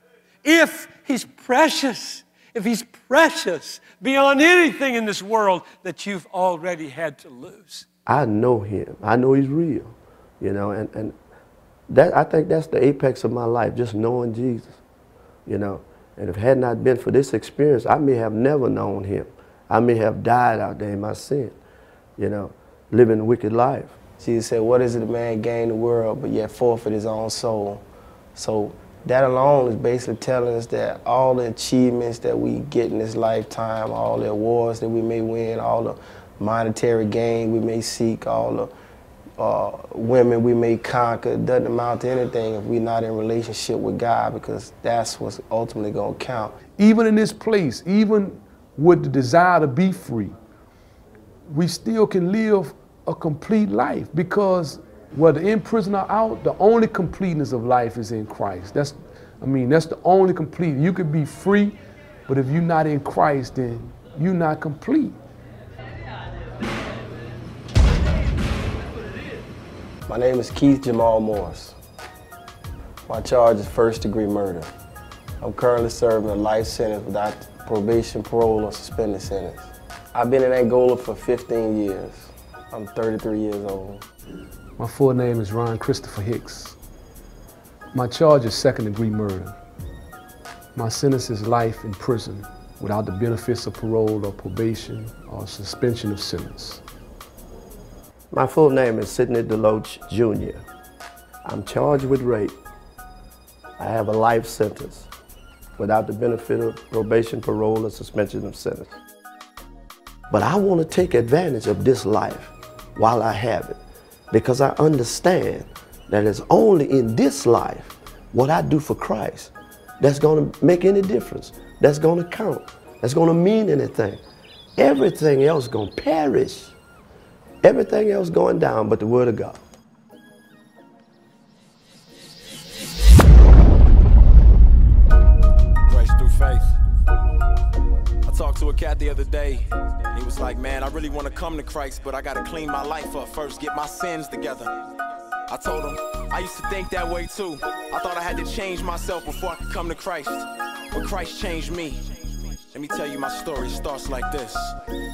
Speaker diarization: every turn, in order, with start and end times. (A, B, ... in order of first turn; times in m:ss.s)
0:00.4-0:07.9 A
0:08.1-0:11.2 B
0:11.9-0:14.8 B
0:15.5-0:21.6 B
0:22.2-0:23.9 B
0:24.2-0:27.8 C
0:28.4-0:38.7 C
0:39.4-0:46.6 C
0:46.8-0:50.4 D
0:51.5-1:01.8 D
1:02.3-1:05.2 D
1:10.1-1:11.8 C
1:13.1-1:14.7 C
1:15.4-1:24.0 C
1:24.8-1:26.8 D
1:27.9-1:29.6 D
1:30.8-1:36.8 D
1:38.3-1:40.6 B
1:41.4-1:42.6 B
1:43.8-1:45.1 B
1:45.8-1:49.0 B
1:50.3-1:53.8 B
1:54.3-2:04.2 B
2:04.8-2:06.8 B
2:07.6-2:09.6 B
2:15.9-2:16.7 E
2:18.2-2:24.7 E
2:25.5-2:34.8 E